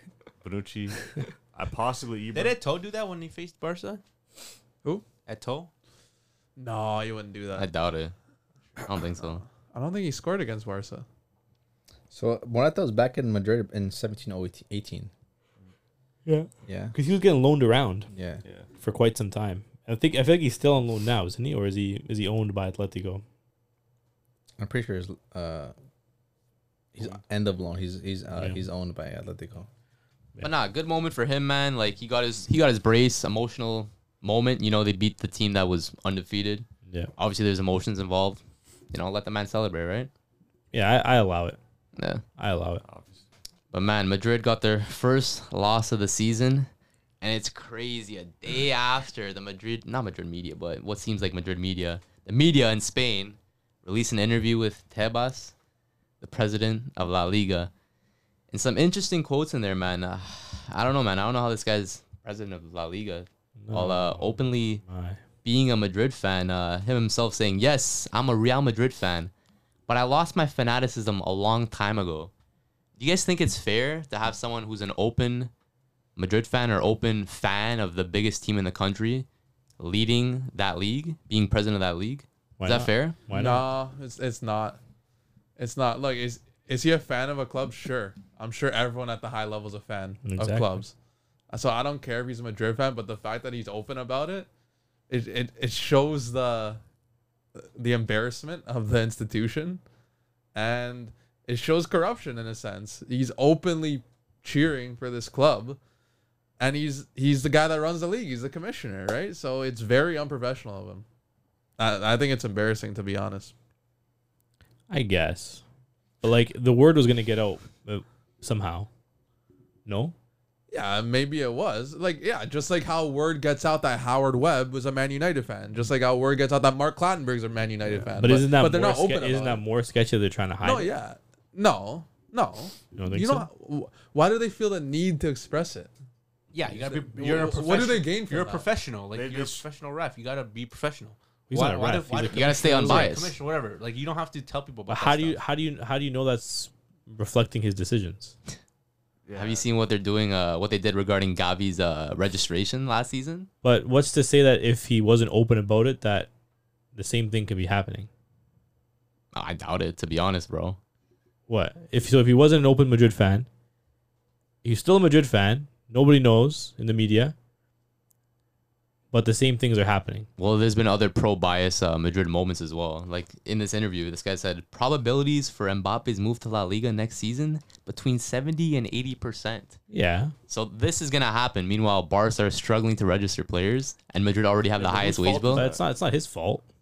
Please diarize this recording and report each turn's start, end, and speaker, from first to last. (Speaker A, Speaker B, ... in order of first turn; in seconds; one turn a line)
Speaker A: 0.4-2.6
Speaker B: 2.3-4.0
Speaker B: 5.2-5.7
Speaker C: 6.6-7.7
Speaker D: 7.5-8.1
Speaker D: 8.8-9.4
Speaker C: 9.7-11.1
Speaker E: 12.1-15.1
Speaker F: 16.3-18.1
Speaker E: 16.7-16.9
Speaker E: 18.1-18.4
Speaker F: 18.8-23.2
Speaker E: 24.6-25.7
Speaker E: 26.9-29.7
Speaker D: 30.4-40.1
Speaker F: 40.7-41.6
Speaker D: 42.0-42.2
Speaker F: 42.4-42.8
Speaker A: 42.8-43.2
Speaker D: 43.7-46.7
Speaker D: 47.2-55.5
Speaker D: 56.2-57.7
Speaker D: 58.5-64.8
Speaker F: 63.6-65.2
Speaker D: 65.4-69.3
Speaker D: 69.9-72.3
Speaker D: 73.0-75.5
Speaker D: 76.2-79.3
Speaker D: 79.8-83.2
Speaker F: 82.6-83.7
Speaker C: 83.3-84.8
Speaker C: 85.6-90.9
Speaker F: 90.2-90.8
Speaker C: 91.5-94.5
Speaker C: 95.1-96.8
Speaker C: 97.5-99.8
Speaker C: 100.5-105.8
Speaker C: 106.6-111.0
Speaker C: 111.8-113.5
Speaker F: 114.9-115.6
Speaker F: 116.2-118.9
Speaker F: 119.9-120.1
Speaker C: 120.7-129.6
Speaker F: 128.1-130.9
Speaker C: 130.6-135.9
Speaker F: 132.9-133.5
Speaker B: 136.5-145.4
Speaker C: 136.7-138.7
Speaker A: 139.1-139.6
Speaker F: 141.5-143.0
Speaker D: 142.3-143.4
Speaker C: 142.7-143.1
Speaker F: 144.9-148.4
Speaker A: 149.3-149.7
Speaker D: 149.3-153.5
Speaker F: 153.6-156.3
Speaker F: 156.9-158.1
Speaker D: 159.3-160.8
Speaker F: 161.5-163.5
Speaker F: 164.6-167.3
Speaker F: 169.1-170.3
Speaker D: 170.4-179.8
Speaker F: 179.9-180.3
Speaker D: 180.5-185.6
Speaker A: 184.8-185.8
Speaker F: 185.5-186.6